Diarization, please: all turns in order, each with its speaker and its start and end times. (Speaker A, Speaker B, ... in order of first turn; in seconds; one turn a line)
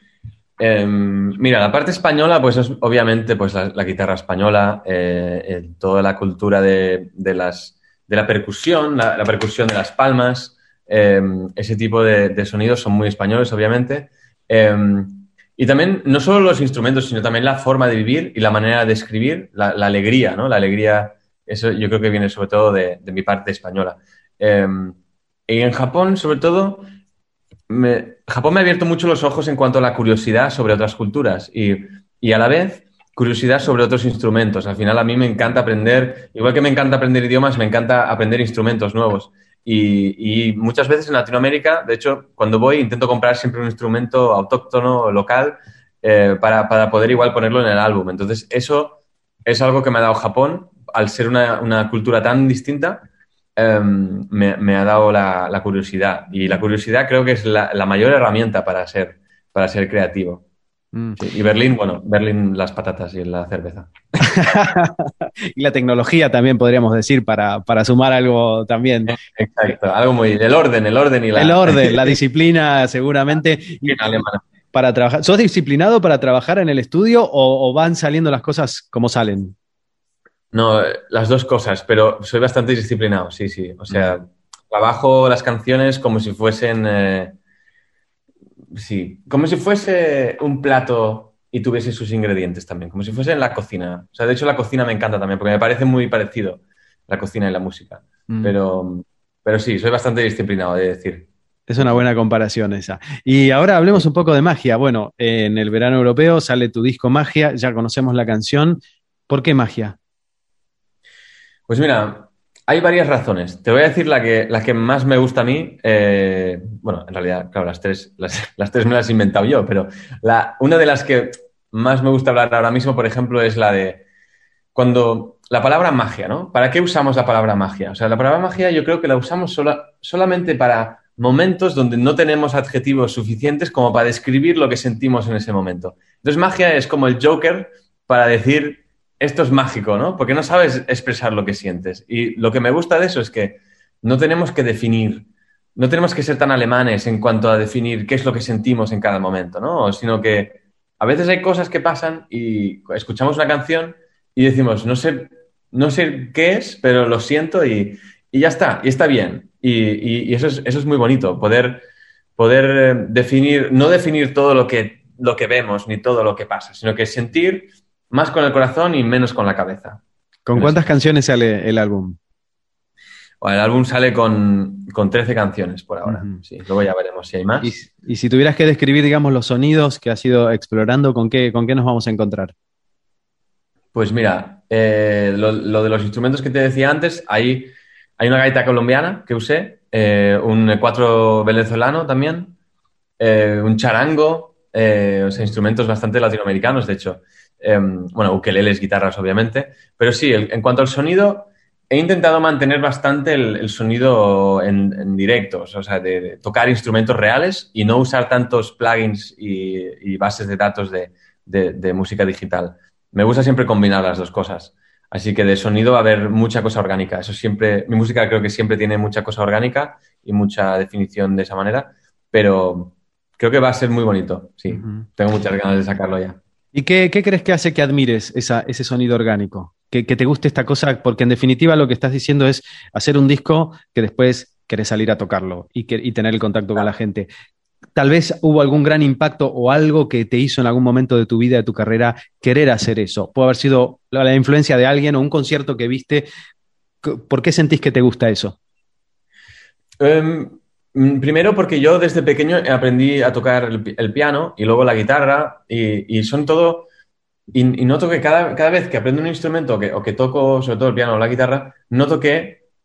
Speaker A: 0.6-25.0
Speaker A: 25.5-26.9
Speaker A: 27.7-53.0
Speaker A: 53.6-60.4
Speaker A: 61.2-63.9
Speaker B: 64.2-69.1
Speaker A: 69.1-72.2
Speaker B: 71.4-74.1
Speaker A: 73.8-74.4
Speaker B: 74.7-79.5
Speaker A: 80.5-87.4
Speaker B: 83.9-84.2
Speaker A: 88.8-101.3
Speaker B: 98.3-98.5
Speaker B: 101.7-110.0
Speaker A: 111.7-124.0
Speaker A: 124.8-161.8
Speaker A: 162.4-170.0
Speaker B: 170.4-172.2
Speaker A: 170.5-170.8
Speaker A: 173.4-177.7
Speaker B: 176.1-176.4
Speaker B: 177.6-182.5
Speaker A: 183.9-192.5
Speaker A: 193.2-226.4
Speaker B: 224.7-225.0
Speaker B: 226.7-237.3
Speaker B: 237.9-246.3
Speaker B: 247.0-248.6
Speaker A: 250.0-256.9
Speaker A: 257.5-262.6